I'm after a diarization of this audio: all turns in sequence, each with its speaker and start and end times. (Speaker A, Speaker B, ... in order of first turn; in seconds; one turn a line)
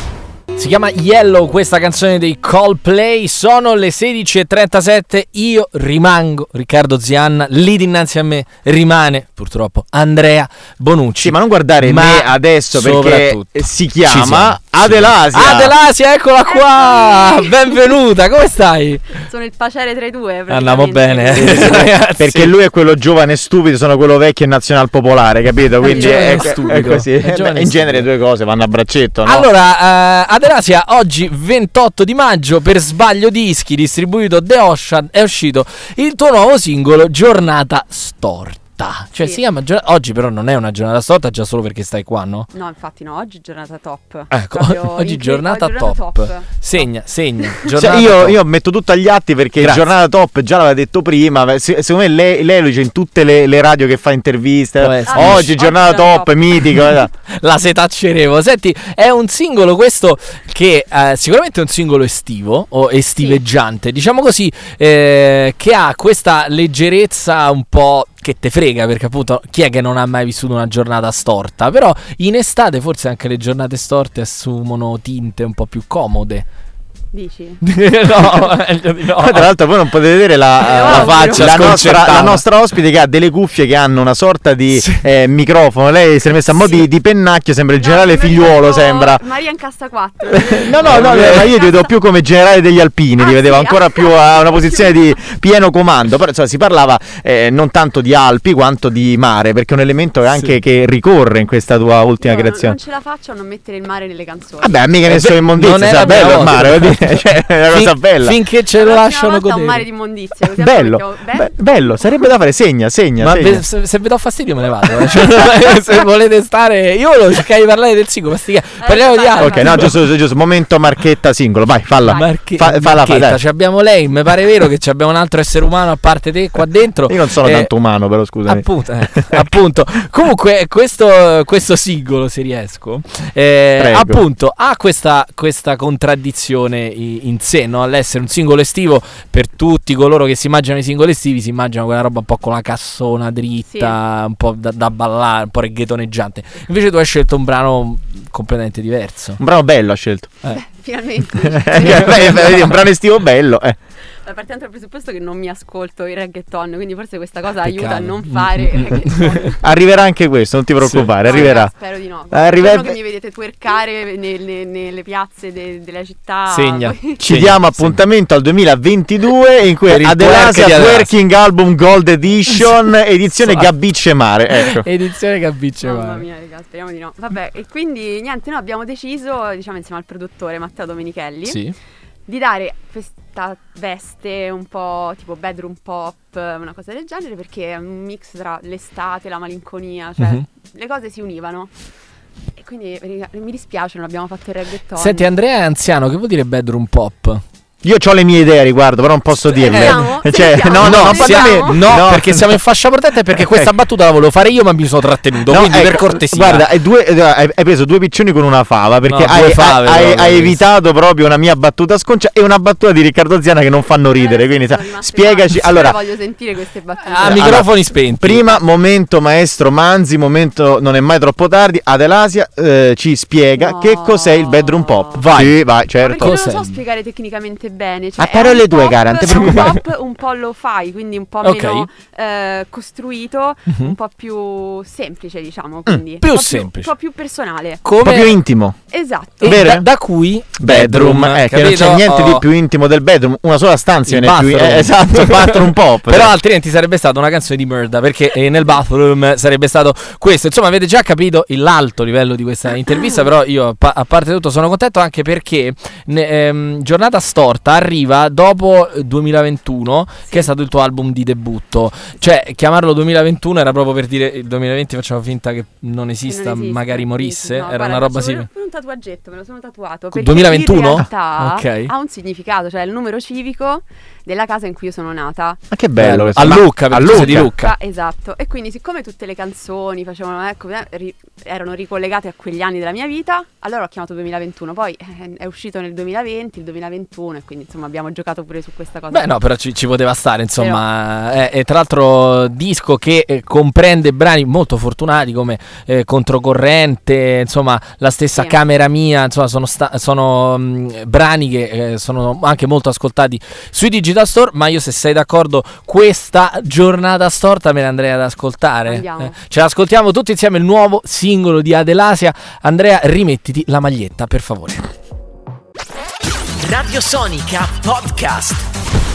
Speaker A: 0.6-19.2
Speaker B: 11.2-15.7
Speaker C: 16.5-17.8
Speaker C: 19.2-21.8
Speaker A: 20.5-22.5
Speaker B: 21.3-29.5
Speaker A: 25.8-28.1
Speaker C: 25.9-26.9
Speaker A: 29.2-42.5
Speaker C: 42.5-46.9
Speaker A: 44.3-48.4
Speaker C: 47.4-47.7
Speaker B: 47.8-57.1
Speaker A: 49.6-49.9
Speaker A: 54.8-55.6
Speaker C: 55.1-56.8
Speaker A: 57.3-76.5
Speaker C: 77.1-77.6
Speaker A: 77.6-79.5
Speaker B: 79.2-89.2
Speaker C: 80.6-81.6
Speaker A: 80.8-82.4
Speaker C: 86.5-86.9
Speaker C: 87.8-91.9
Speaker B: 90.5-102.8
Speaker A: 90.8-91.4
Speaker C: 93.2-95.2
Speaker A: 100.3-100.6
Speaker C: 102.2-104.8
Speaker B: 104.6-108.4
Speaker A: 105.1-109.8
Speaker C: 105.9-106.8
Speaker C: 108.7-111.6
Speaker B: 110.6-113.6
Speaker A: 113.2-119.9
Speaker C: 118.8-120.0
Speaker B: 119.4-123.4
Speaker A: 122.1-127.7
Speaker B: 127.1-128.7
Speaker A: 128.5-149.4
Speaker B: 133.8-134.2
Speaker C: 143.7-143.9
Speaker B: 149.4-150.4
Speaker C: 150.6-152.7
Speaker B: 151.4-153.8
Speaker A: 151.8-152.1
Speaker C: 154.2-159.6
Speaker A: 157.6-159.6
Speaker B: 159.6-161.7
Speaker A: 160.8-161.5
Speaker C: 161.2-167.2
Speaker B: 162.3-163.0
Speaker A: 166.5-168.0
Speaker B: 167.2-174.9
Speaker A: 169.9-171.1
Speaker A: 173.4-173.7
Speaker A: 174.5-176.2
Speaker C: 175.8-181.6
Speaker A: 181.5-181.8
Speaker C: 182.3-191.7
Speaker A: 190.2-190.4
Speaker C: 192.6-195.3
Speaker A: 195.0-197.4
Speaker B: 197.8-202.5
Speaker A: 199.4-200.1
Speaker C: 199.6-202.0
Speaker A: 200.8-206.7
Speaker B: 205.5-216.0
Speaker A: 209.1-210.6
Speaker C: 214.2-217.6
Speaker A: 217.0-218.5
Speaker B: 217.2-217.7
Speaker B: 218.2-226.3
Speaker C: 223.6-225.2
Speaker A: 225.2-225.6
Speaker C: 226.0-237.8
Speaker A: 226.2-226.8
Speaker B: 228.2-229.8
Speaker A: 231.4-231.9
Speaker A: 236.2-236.9
Speaker A: 237.8-238.4
Speaker B: 238.0-238.8
Speaker C: 238.9-239.6
Speaker A: 239.4-242.4
Speaker B: 239.4-239.9
Speaker B: 240.6-246.3
Speaker A: 244.1-268.5
Speaker C: 266.3-275.6
Speaker A: 270.1-271.9
Speaker B: 275.7-277.5
Speaker A: 276.0-277.7
Speaker C: 277.0-289.3
Speaker A: 289.1-314.9
Speaker C: 290.6-290.8
Speaker C: 308.9-309.4
Speaker A: 316.6-318.6